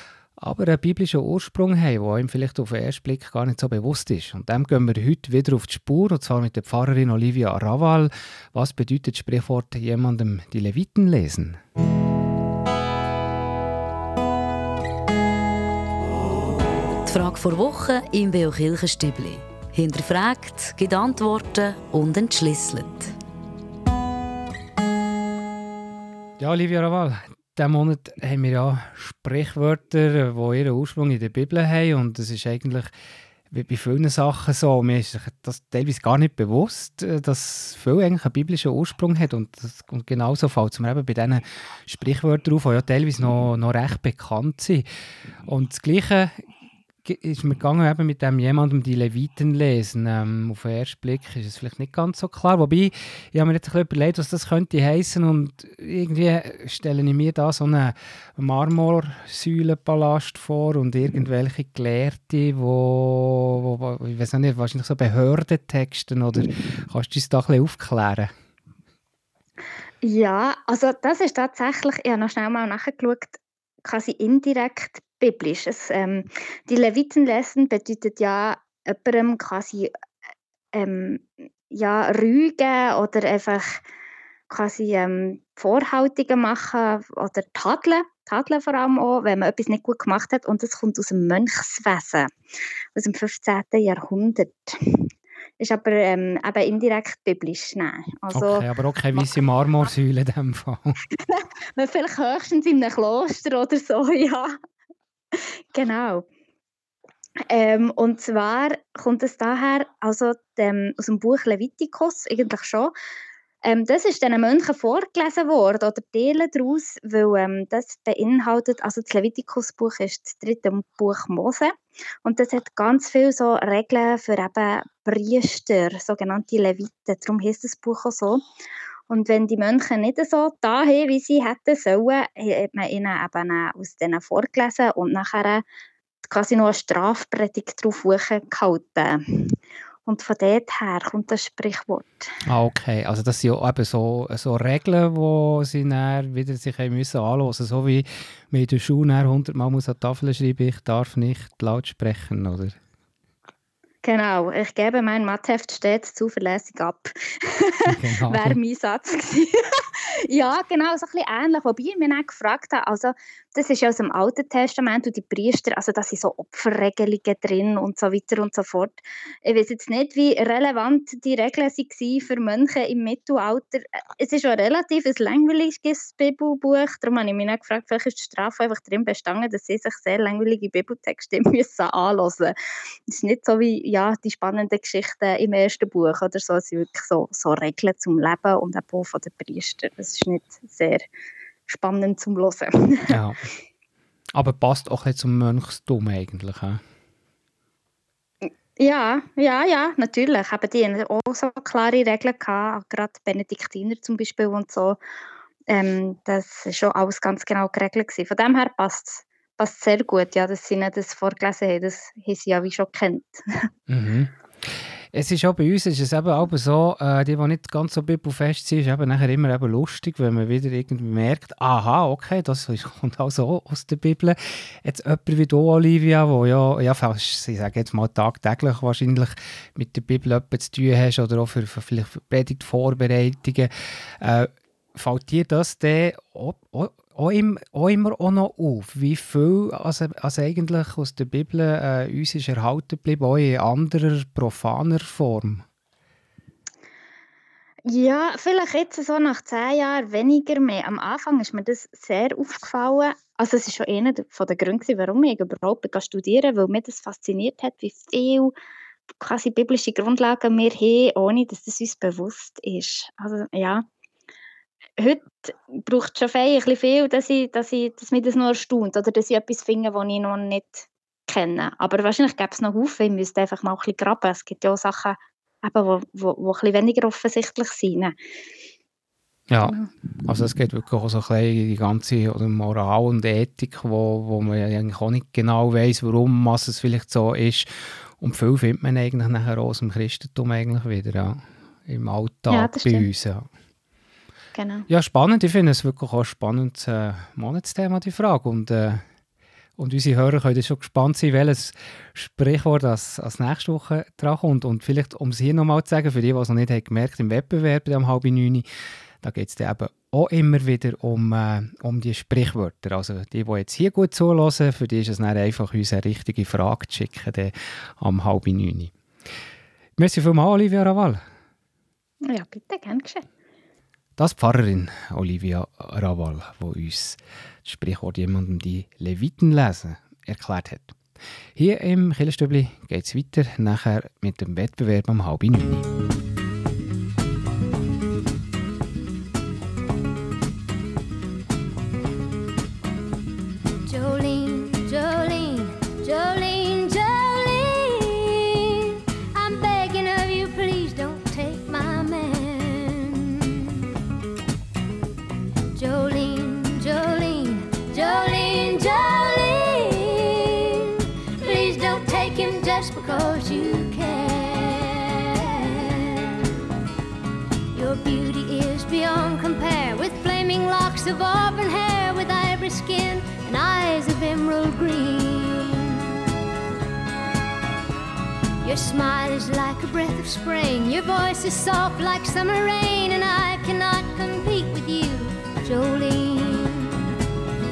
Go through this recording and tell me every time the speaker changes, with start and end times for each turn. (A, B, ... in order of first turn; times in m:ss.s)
0:00.4-0:11.6 A
0:17.1-0:23.1 B
0:26.4-0:32.9 A
0:33.5-0:44.9 A
0:45.5-0:46.3 A
0:47.0-1:08.3 A
1:10.0-1:19.9 C
1:20.7-1:23.8 C
1:24.5-1:32.3 C
1:33.0-1:35.1 C
1:35.6-1:39.2 C
1:38.3-1:41.0 A
1:41.3-1:44.6 C
1:45.7-1:46.3 C
1:47.5-1:52.9 C
1:53.6-2:08.4 C
2:09.1-2:15.6 C
2:16.2-2:19.6 C
2:20.1-2:22.2 C
2:22.5-2:32.8 A
2:34.0-3:02.5 C
2:37.8-2:38.6 A
3:03.1-3:11.0 C
3:11.7-3:13.1 C
3:13.1-3:13.4 A
3:14.3-3:16.8 A
3:18.8-3:25.0 C
3:25.7-3:33.4 C
3:33.9-3:53.7 A
3:54.2-4:05.6 A
4:07.9-4:18.5 C
4:19.2-4:23.9 C
4:25.0-4:38.2 C
4:39.5-4:47.7 A
4:48.2-4:53.5 A
4:52.5-4:53.1 C
4:54.6-4:54.8 C
4:54.9-4:59.0 A
4:59.8-5:08.7 A
5:09.2-5:18.9 A
5:20.0-5:21.2 A
5:22.3-5:23.2 C
5:24.2-5:31.0 A
5:31.6-5:35.9 A
5:43.9-5:53.8 D
5:55.8-6:06.5 D
6:07.7-6:16.1 D
6:18.6-6:27.1 D